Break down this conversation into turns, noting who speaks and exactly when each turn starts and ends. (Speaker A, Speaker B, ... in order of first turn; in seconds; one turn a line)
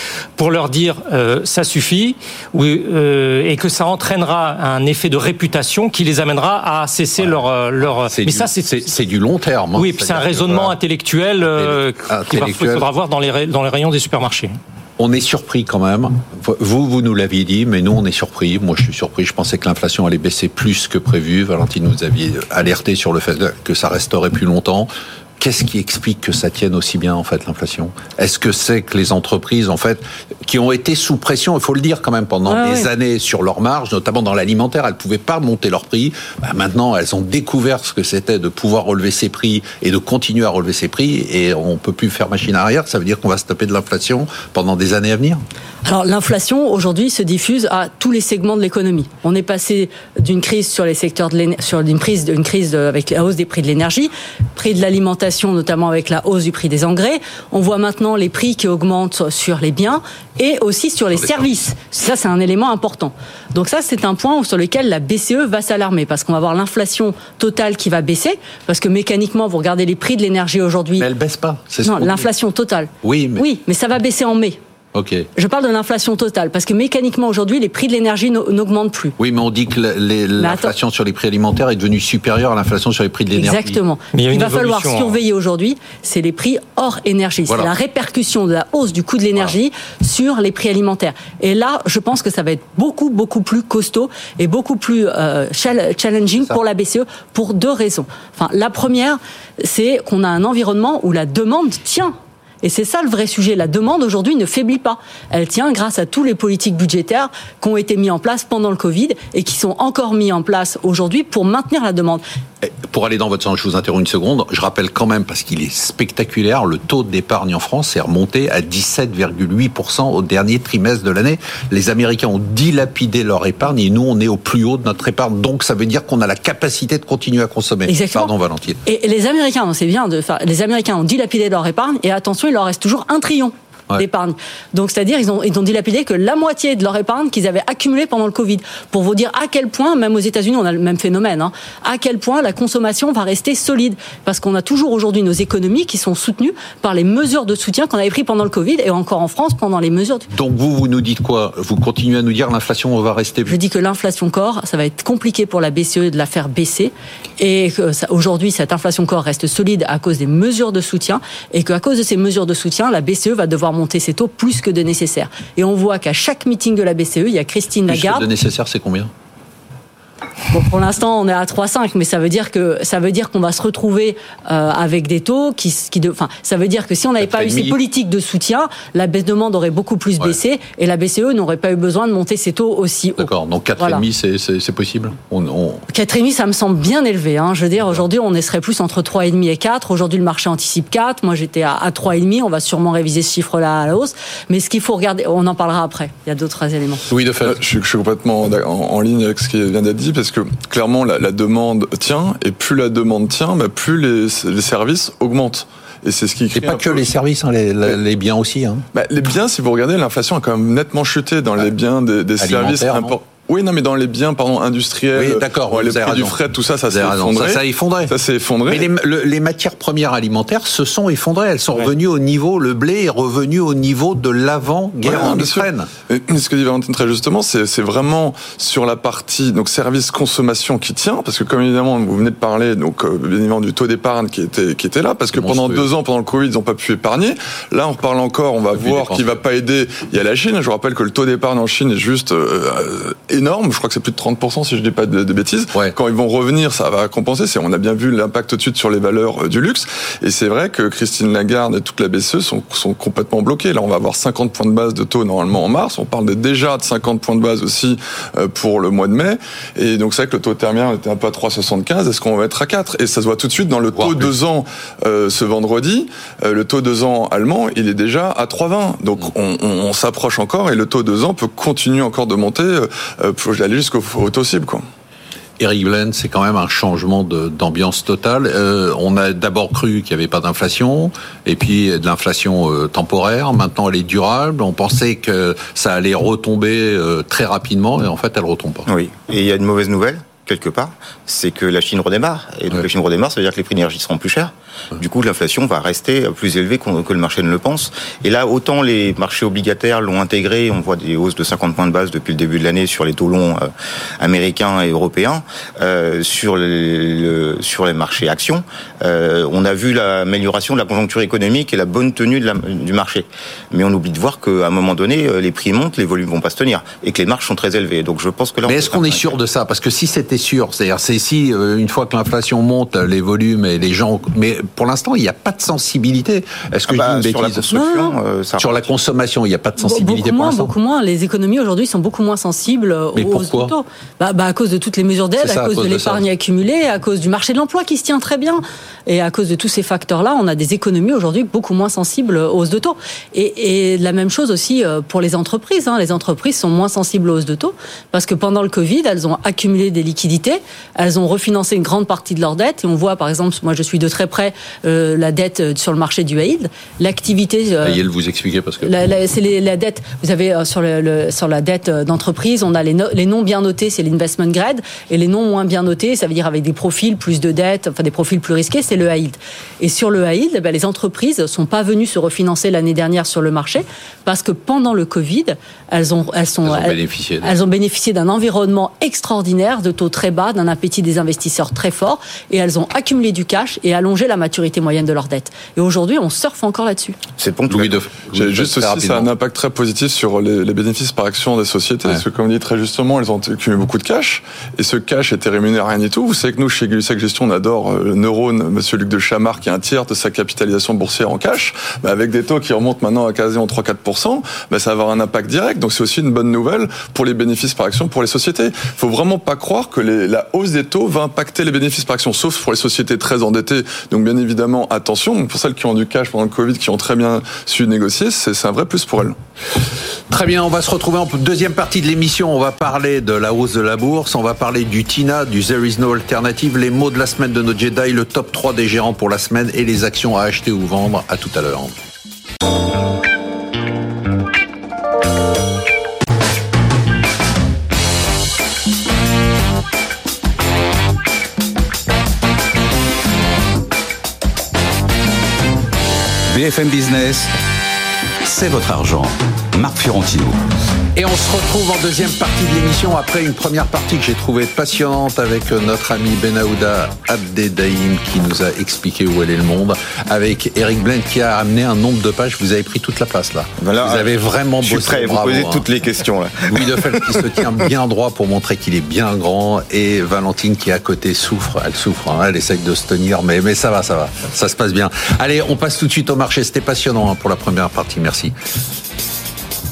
Speaker A: 0.4-8.9
Speaker B: 8.1-10.7
Speaker A: 9.8-14.6
Speaker B: 11.6-12.9
Speaker B: 15.0-45.4
Speaker C: 32.5-32.9
Speaker C: 45.9-71.1
Speaker B: 71.0-72.3
Speaker C: 71.8-74.6
Speaker B: 73.0-73.4
Speaker B: 74.9-75.3
Speaker C: 75.4-79.2
Speaker B: 79.2-83.8
Speaker C: 80.4-80.7
Speaker C: 83.3-112.2
Speaker A: 84.1-85.2
Speaker B: 112.6-128.8
Speaker C: 127.9-128.3
Speaker C: 128.8-150.3
Speaker B: 150.3-153.6
Speaker C: 153.5-168.2
Speaker B: 167.9-169.1
Speaker C: 170.5-184.0
Speaker B: 177.2-177.8
Speaker B: 183.2-185.8
Speaker C: 185.9-197.1
Speaker B: 197.1-197.6
Speaker D: 197.4-207.0
Speaker B: 206.6-208.8
Speaker D: 208.9-218.9
Speaker B: 212.4-213.2
Speaker B: 215.2-216.4
Speaker B: 216.9-218.1
Speaker B: 218.7-225.9
Speaker D: 225.0-274.8
Speaker B: 235.3-235.9
Speaker B: 238.7-239.4
Speaker B: 263.9-264.3
Speaker B: 275.6-288.9
Speaker E: 288.9-303.7
Speaker E: 304.2-319.3
Speaker B: 318.7-327.7
Speaker E: 326.9-328.9
Speaker C: 327.7-328.1
Speaker B: 328.6-330.7
Speaker C: 329.8-358.0
Speaker B: 333.1-333.7
Speaker B: 335.4-336.2
Speaker B: 357.8-358.9
Speaker C: 358.8-387.2
Speaker B: 376.6-377.5
Speaker E: 387.4-388.0
Speaker B: 387.7-389.3
Speaker D: 388.3-419.4
Speaker B: 420.3-432.0
Speaker F: 446.5-447.5
Speaker F: 448.4-450.6
Speaker B: 451.1-465.9
Speaker E: 463.8-467.6
Speaker B: 466.7-478.6